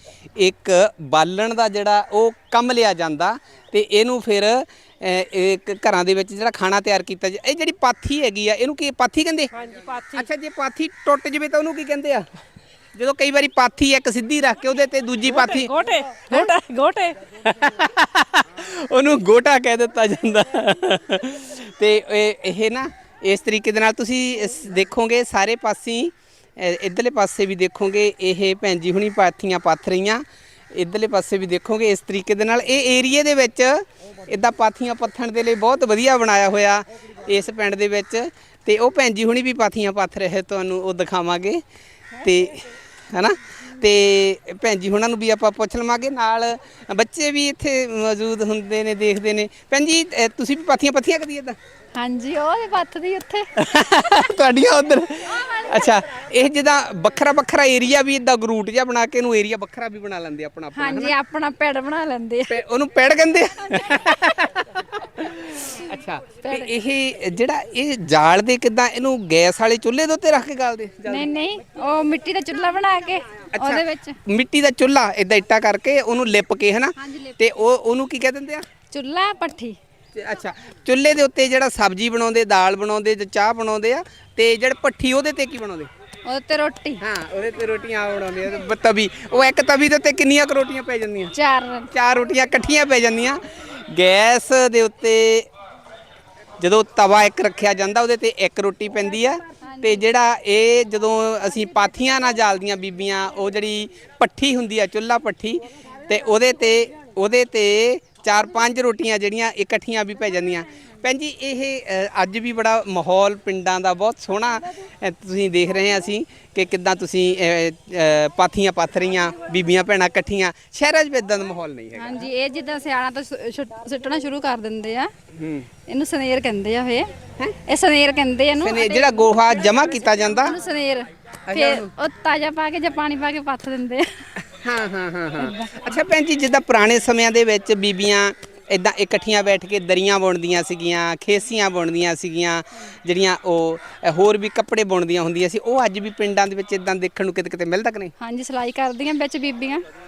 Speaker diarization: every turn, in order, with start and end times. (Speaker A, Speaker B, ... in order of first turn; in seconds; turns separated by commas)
Speaker A: 0.4-9.5, Speaker B: 9.5-10.3, Speaker A: 10.1-12.3, Speaker A: 12.9-15.7, Speaker B: 15.3-17.3, Speaker A: 17.3-41.6, Speaker A: 42.2-51.6, Speaker C: 52.0-53.5, Speaker A: 53.6-61.1, Speaker C: 55.4-56.0, Speaker C: 60.8-62.5, Speaker A: 62.5-71.3, Speaker C: 66.4-66.7, Speaker C: 71.0-74.2, Speaker A: 73.5-78.7, Speaker C: 77.0-77.7, Speaker C: 78.9-79.8, Speaker A: 80.2-85.9, Speaker C: 86.2-87.0, Speaker A: 87.0-91.3, Speaker C: 91.3-91.9, Speaker A: 91.9-95.5, Speaker A: 96.6-122.3, Speaker C: 99.5-100.0, Speaker C: 121.9-125.1, Speaker A: 125.3-125.7, Speaker C: 125.9-127.1, Speaker C: 127.6-134.1, Speaker A: 128.6-130.6, Speaker A: 131.5-131.9, Speaker A: 134.4-148.1, Speaker C: 135.4-136.0, Speaker C: 148.2-149.8